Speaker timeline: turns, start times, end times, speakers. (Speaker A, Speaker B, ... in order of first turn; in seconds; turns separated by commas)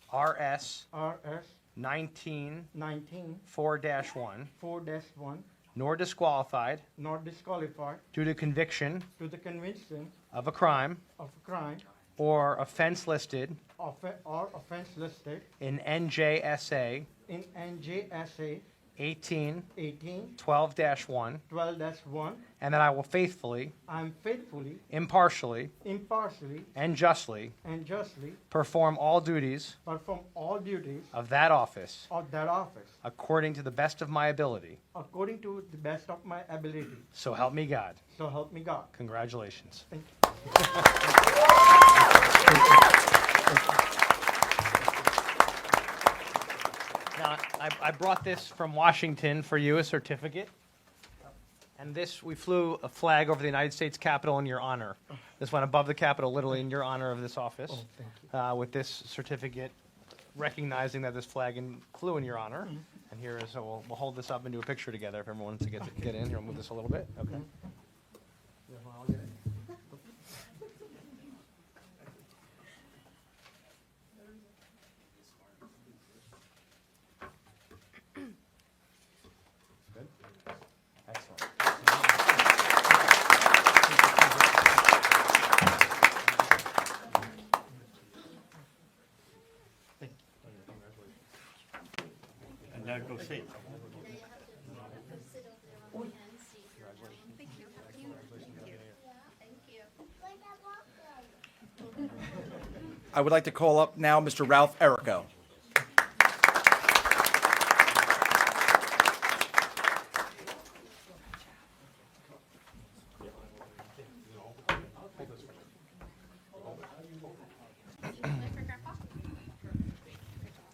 Speaker A: 0.1-0.9, Speaker B: 0.9-1.6, Speaker A: 1.8-2.7, Speaker B: 2.7-3.4, Speaker A: 3.5-4.5, Speaker B: 4.6-5.5, Speaker A: 5.7-6.9, Speaker B: 7.0-8.0, Speaker A: 8.1-9.1, Speaker B: 9.2-10.1, Speaker A: 10.3-11.0, Speaker B: 11.2-11.8, Speaker A: 12.2-13.6, Speaker B: 13.8-15.4, Speaker A: 15.6-17.1, Speaker B: 17.3-18.6, Speaker A: 19.0-19.7, Speaker B: 19.8-20.4, Speaker A: 20.4-21.4, Speaker B: 21.5-22.5, Speaker A: 22.6-23.8, Speaker B: 23.9-24.8, Speaker A: 24.9-25.8, Speaker B: 25.8-26.7, Speaker A: 26.8-27.6, Speaker B: 27.6-28.4, Speaker A: 28.5-29.8, Speaker B: 29.9-31.1, Speaker A: 31.1-32.1, Speaker B: 32.1-33.0, Speaker A: 33.0-34.8, Speaker B: 34.9-37.0, Speaker A: 37.1-38.0, Speaker B: 38.1-38.9, Speaker A: 38.9-39.9, Speaker A: 47.1-50.5, Speaker A: 51.8-59.8, Speaker B: 57.7-58.2, Speaker A: 60.3-67.5, Speaker C: 94.5-101.2, Speaker D: 103.1-105.3, Speaker C: 118.2-119.0